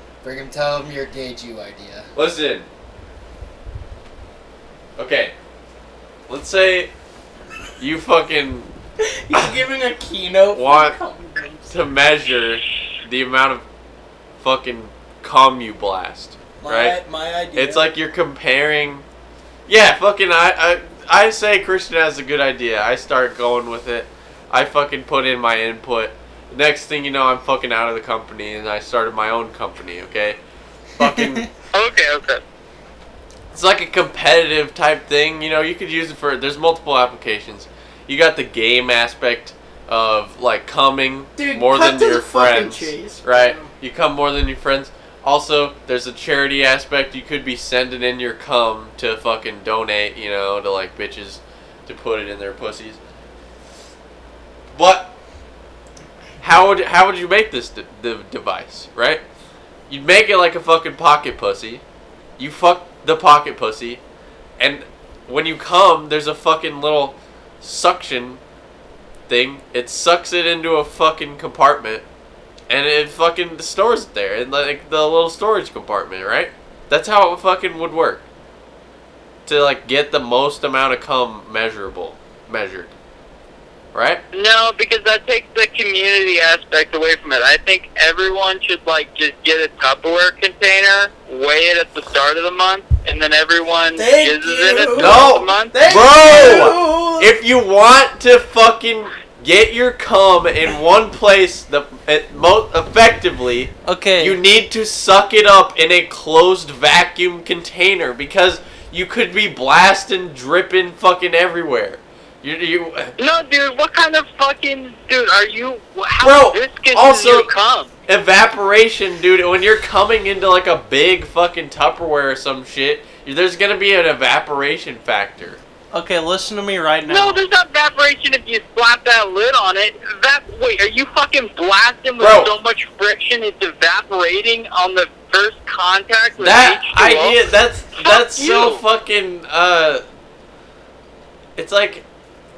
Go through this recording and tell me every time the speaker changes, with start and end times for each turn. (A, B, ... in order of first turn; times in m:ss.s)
0:00.2-0:02.1 A
0:02.2-0:02.7 B
0:05.0-0:05.3 B
0:06.3-0:06.9 B
0:07.8-0:08.7 B
0:09.0-0:11.7 C
0:10.5-0:11.0 B
0:11.7-0:13.6 B
0:14.4-0:17.0 B
0:16.6-0:17.9 C
0:17.6-0:19.0 B
0:19.7-0:30.4 B
0:31.0-0:31.5 B
0:31.0-0:31.5 A
0:31.7-0:32.4 D
0:33.5-0:53.0 B
0:41.4-0:43.7 C
0:54.7-0:55.1 B
0:56.4-0:59.2 B
0:59.9-1:01.8 B
1:02.4-1:04.0 B
1:04.6-1:08.4 B
1:09.3-1:12.0 B
1:12.7-1:18.2 B
1:19.5-1:22.9 B
1:23.9-1:24.2 B
1:24.3-1:35.9 D
1:34.0-1:37.3 C
1:35.0-1:53.2 B
1:43.8-1:44.4 C
1:53.2-1:57.9 D
1:56.2-1:57.5 B
1:58.1-2:05.6 B
2:05.9-2:07.4 C
2:07.1-2:17.4 D
2:12.2-2:12.5 B
2:16.4-2:20.0 B
2:18.0-2:18.8 D
2:21.6-2:22.0 B